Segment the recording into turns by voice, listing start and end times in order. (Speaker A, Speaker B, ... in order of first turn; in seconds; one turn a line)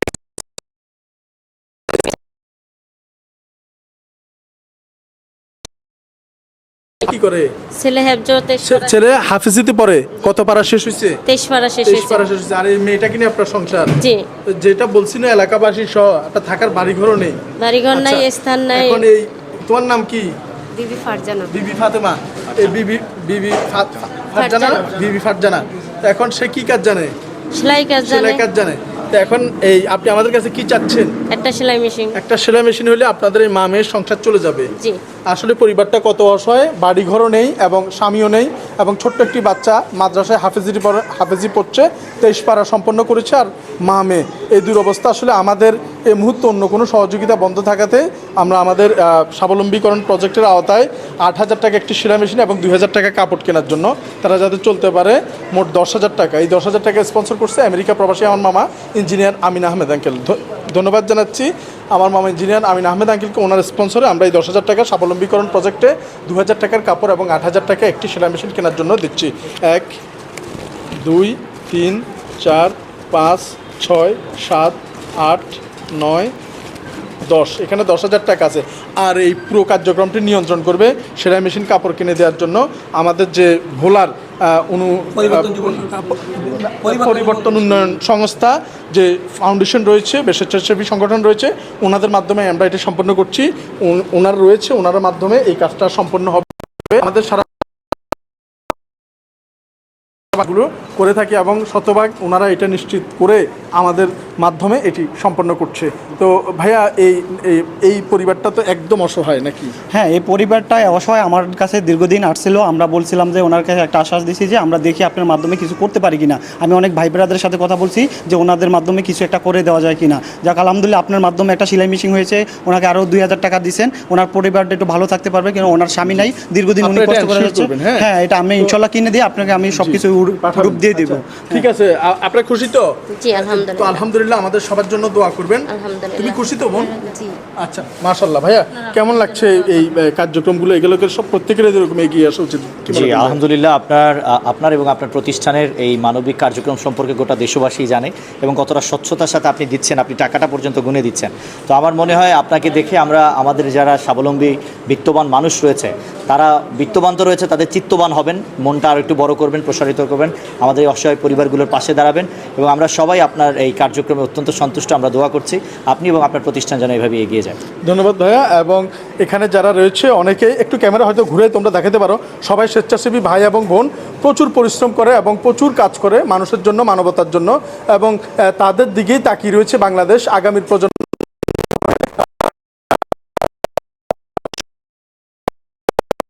Speaker A: 7.0-7.5
Speaker B: 7.8-8.9
Speaker A: 8.6-11.2
Speaker B: 11.3-12.2
Speaker A: 11.8-13.9
Speaker B: 14.0-14.2
Speaker A: 14.5-17.4
Speaker B: 17.6-19.1
Speaker A: 17.9-20.3
Speaker B: 20.8-21.6
Speaker A: 21.5-27.1
Speaker B: 24.3-24.8
Speaker B: 27.5-28.4
Speaker A: 28.0-31.2
Speaker B: 31.3-32.2
Speaker A: 32.1-34.7
Speaker A: 35.3-70.0
Speaker A: 71.0-76.3
Speaker A: 77.2-97.5
Speaker A: 100.3-109.7
Speaker C: 109.9-131.7
Speaker A: 126.8-128.1
Speaker A: 129.7-136.9
Speaker B: 133.1-134.0
Speaker B: 135.7-137.4
Speaker A: 137.6-143.4
Speaker D: 142.9-167.6
Speaker A: 167.8-181.1